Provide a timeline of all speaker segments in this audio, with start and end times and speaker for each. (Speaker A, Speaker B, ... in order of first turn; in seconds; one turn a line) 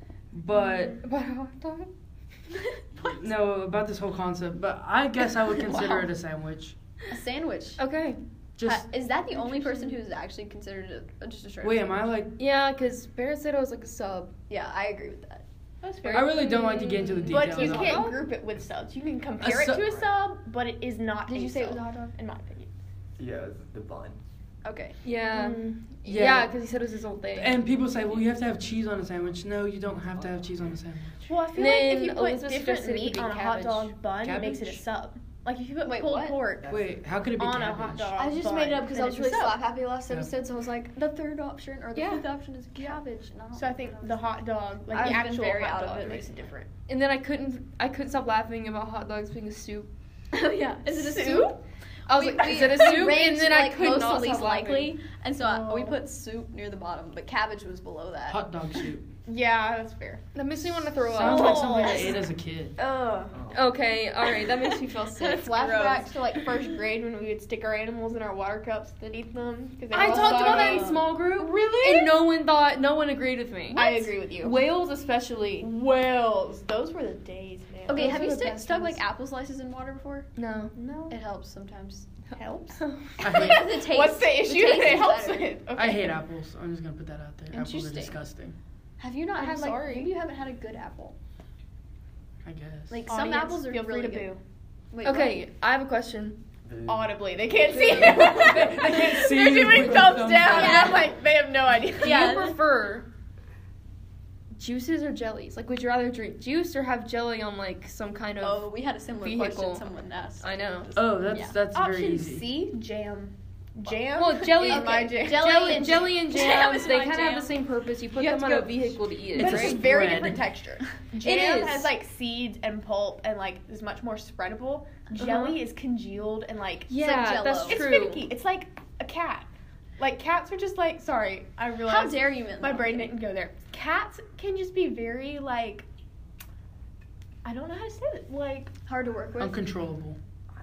Speaker A: 0.3-1.0
Speaker B: 0.6-0.9
Speaker C: 1.0-1.9
Speaker A: 3.0-6.8
Speaker D: 7.1-7.8
Speaker C: 7.8-8.2
Speaker A: 8.6-8.9
Speaker D: 8.6-12.0
Speaker B: 9.3-10.0
Speaker A: 11.6-12.3
Speaker C: 12.4-14.3
Speaker D: 14.5-15.4
Speaker B: 15.8-16.4
Speaker C: 16.0-18.2
Speaker A: 16.1-18.1
Speaker B: 17.3-22.7
Speaker A: 19.4-20.0
Speaker C: 21.3-22.0
Speaker E: 23.2-24.2
Speaker D: 24.6-25.0
Speaker C: 25.0-27.6
Speaker B: 25.3-25.7
Speaker A: 26.1-26.5
Speaker A: 27.4-31.2
Speaker B: 31.2-39.6
Speaker C: 31.5-33.9
Speaker A: 34.2-34.8
Speaker D: 35.8-36.4
Speaker A: 36.7-38.2
Speaker D: 38.2-46.5
Speaker C: 42.0-42.2
Speaker B: 42.8-43.0
Speaker B: 43.5-46.7
Speaker C: 44.9-45.2
Speaker C: 46.9-49.9
Speaker D: 50.3-51.6
Speaker B: 50.9-51.6
Speaker C: 52.1-55.0
Speaker D: 52.1-58.4
Speaker B: 52.4-53.0
Speaker B: 55.4-56.0
Speaker A: 58.3-59.1
Speaker B: 59.3-60.2
Speaker C: 60.4-62.1
Speaker A: 61.1-62.8
Speaker B: 61.2-62.2
Speaker D: 61.2-62.2
Speaker B: 62.8-63.4
Speaker E: 63.3-63.6
Speaker C: 63.5-65.5
Speaker D: 65.1-66.7
Speaker B: 65.5-72.1
Speaker C: 69.9-75.7
Speaker D: 69.9-72.0
Speaker B: 73.7-74.5
Speaker B: 75.6-78.2
Speaker D: 77.9-80.3
Speaker C: 77.9-79.0
Speaker C: 80.3-80.8
Speaker B: 80.8-81.2
Speaker D: 81.1-82.1
Speaker C: 82.3-83.2
Speaker B: 82.4-86.2
Speaker A: 83.2-83.7
Speaker D: 83.2-85.5
Speaker A: 85.8-88.6
Speaker D: 87.5-88.2
Speaker D: 89.0-91.2
Speaker B: 89.4-90.1
Speaker A: 92.5-93.0
Speaker D: 92.9-94.3
Speaker B: 93.1-94.4
Speaker D: 94.9-95.4
Speaker C: 95.0-96.4
Speaker E: 96.7-97.6
Speaker B: 96.9-102.4
Speaker D: 97.7-98.3
Speaker A: 98.0-101.0
Speaker D: 100.5-101.1
Speaker C: 102.0-103.1
Speaker D: 102.0-102.6
Speaker C: 104.6-109.9
Speaker D: 108.4-110.5
Speaker C: 110.4-110.9
Speaker A: 110.9-112.5
Speaker D: 111.2-111.5
Speaker B: 111.7-116.1
Speaker C: 114.2-119.9
Speaker D: 114.6-117.5
Speaker D: 118.2-119.0
Speaker A: 119.3-120.5
Speaker B: 119.4-126.9
Speaker C: 121.2-121.9
Speaker D: 125.1-125.5
Speaker C: 126.9-128.3
Speaker D: 126.9-127.8
Speaker B: 127.6-135.9
Speaker D: 131.8-133.1
Speaker B: 137.4-138.7
Speaker D: 138.9-139.6
Speaker A: 139.4-140.2